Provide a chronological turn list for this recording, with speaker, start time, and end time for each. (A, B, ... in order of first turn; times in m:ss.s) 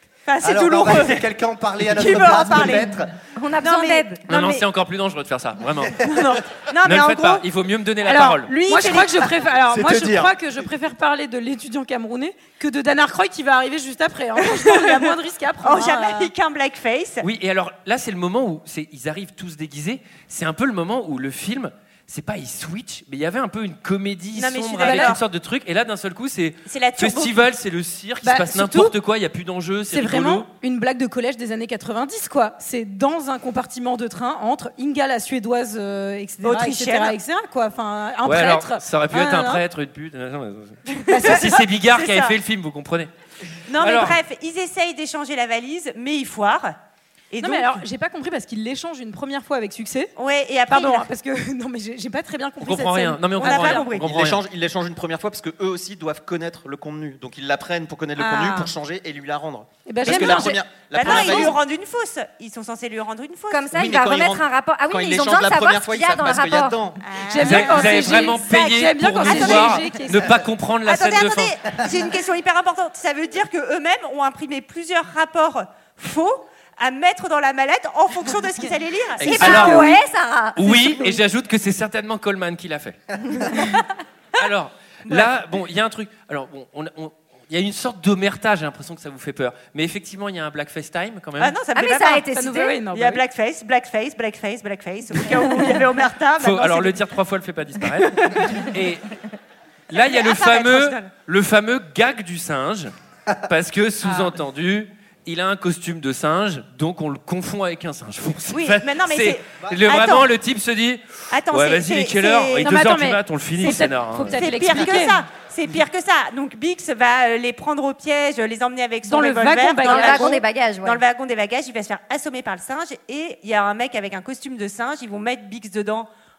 0:00.3-0:01.2 A
0:00.4-0:03.1 B
0:01.9-0:03.0 A
0:03.4-0:04.6 C
0:03.6-0:04.1 A
0:04.3-0:06.1 D
0:06.1-0:06.4 E
0:06.3-0:07.4 A
0:06.8-0:08.5 D
0:08.0-0:16.3 E
0:08.5-0:09.3 A
0:09.7-0:10.3 F
0:14.4-0:17.2 A
0:17.2-0:30.5 D
0:24.3-0:25.2 A
0:24.8-0:25.1 E
0:26.7-0:27.4 A
0:28.2-0:28.9 E
0:29.9-0:39.6 E
0:36.4-0:37.2 A
0:38.2-0:43.1 D
0:41.1-0:42.4 A
0:41.1-0:41.5 E
0:43.7-0:46.8 A
0:43.8-0:44.2 D
0:47.3-0:47.8 A
0:47.4-0:50.1 E
0:50.2-0:51.1 A
0:50.7-0:53.8 E
0:52.6-0:54.4 D
0:53.4-0:54.1 A
0:54.0-1:01.6 F
0:58.2-0:58.7 E
0:59.9-1:01.6 E
1:00.0-1:00.4 A
1:00.9-1:03.7 A
1:03.5-1:06.8 C
1:03.7-1:07.0 F
1:07.0-1:08.4 A
1:07.3-1:10.3 E
1:07.4-1:11.6 D
1:09.3-1:10.0 A
1:10.9-1:19.9 A
1:19.2-1:21.1 C
1:19.2-1:19.5 F
1:19.3-1:19.9 E
1:19.3-1:19.9 D
1:20.6-1:23.0 D
1:24.4-1:31.6 D
1:31.4-1:32.3 A
1:31.7-1:32.8 C
1:32.3-1:33.2 E
1:32.9-1:37.0 A
1:36.4-1:39.2 D
1:38.1-1:38.7 A
1:39.9-1:42.9 D
1:39.9-1:41.1 A
1:43.5-1:54.4 D
1:44.1-1:44.3 E
1:48.5-1:50.3 A
1:51.3-1:52.7 A
1:52.6-1:55.2 E
1:54.4-2:06.1 A
1:59.0-2:00.4 E
1:59.8-2:01.0 C